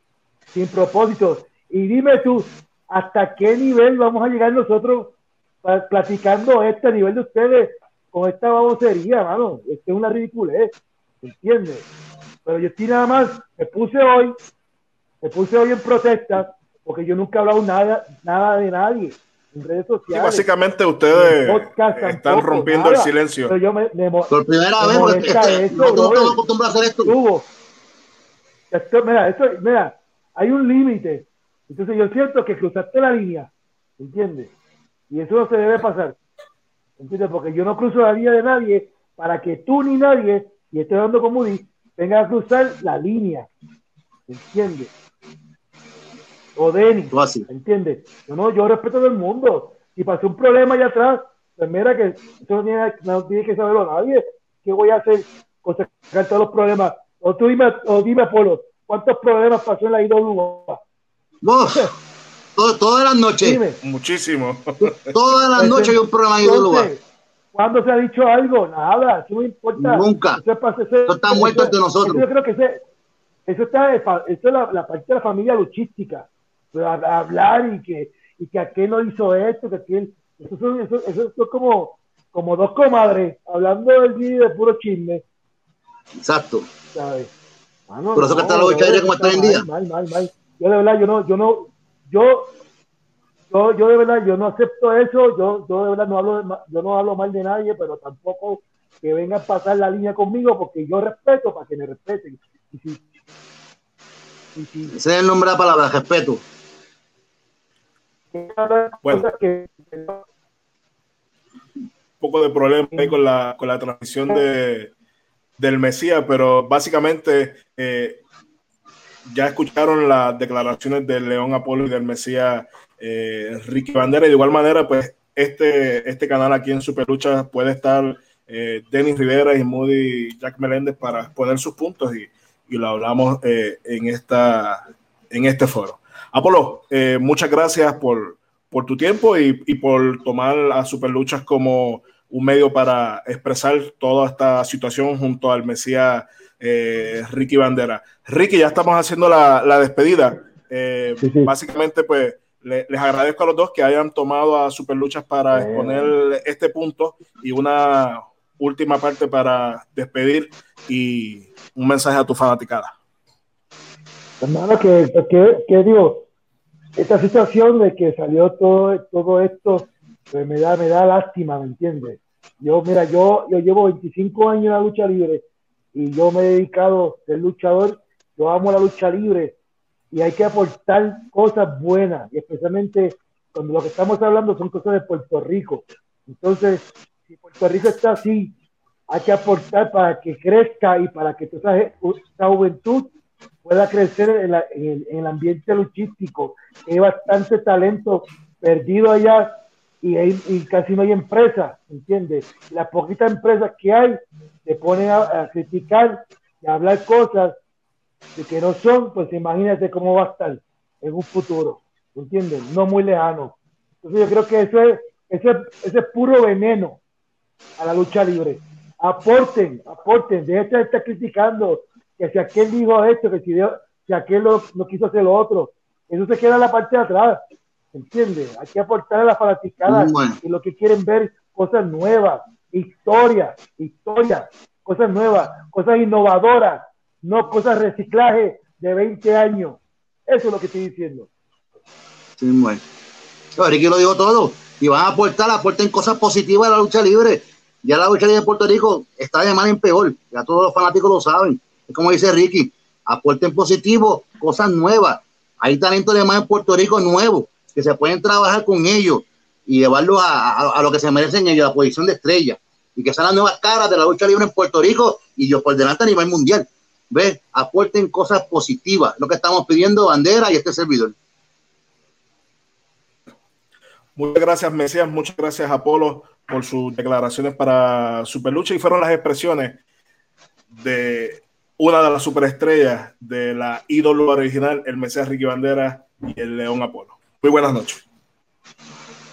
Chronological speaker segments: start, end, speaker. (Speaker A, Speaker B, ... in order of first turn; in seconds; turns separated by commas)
Speaker A: 0.5-11.9, Speaker A: 12.4-14.3, Speaker A: 15.2-20.4, Speaker B: 20.1-23.5, Speaker A: 21.1-26.4, Speaker C: 24.3-27.1, Speaker A: 27.0-27.5, Speaker A: 28.7-34.5, Speaker A: 35.1-36.2, Speaker A: 37.0-43.5, Speaker A: 44.3-44.9, Speaker A: 46.5-60.8, Speaker C: 47.1-47.4, Speaker C: 61.4-61.9, Speaker C: 62.5-63.6, Speaker A: 63.4-63.8, Speaker B: 63.8-65.1, Speaker C: 64.8-66.9, Speaker A: 65.6-72.8, Speaker C: 69.8-70.4, Speaker C: 71.1-72.2, Speaker A: 73.5-85.2, Speaker C: 86.2-86.7, Speaker A: 86.9-87.3, Speaker A: 87.9-92.5, Speaker C: 88.1-89.7, Speaker A: 93.5-103.0, Speaker A: 104.5-105.0, Speaker C: 104.9-106.4, Speaker A: 108.3-110.2, Speaker B: 112.2-114.9, Speaker B: 115.6-118.2, Speaker B: 119.3-162.9, Speaker A: 151.2-151.5, Speaker A: 155.5-156.1, Speaker A: 164.4-166.2, Speaker A: 166.9-179.5, Speaker A: 180.1-188.5, Speaker A: 189.1-193.1, Speaker A: 193.6-207.6, Speaker A: 208.3-217.0, Speaker A: 217.8-227.4, Speaker A: 227.9-241.3, Speaker C: 229.8-230.4, Speaker C: 242.4-242.8, Speaker C: 243.5-271.1, Speaker B: 274.1-279.8, Speaker B: 280.7-288.0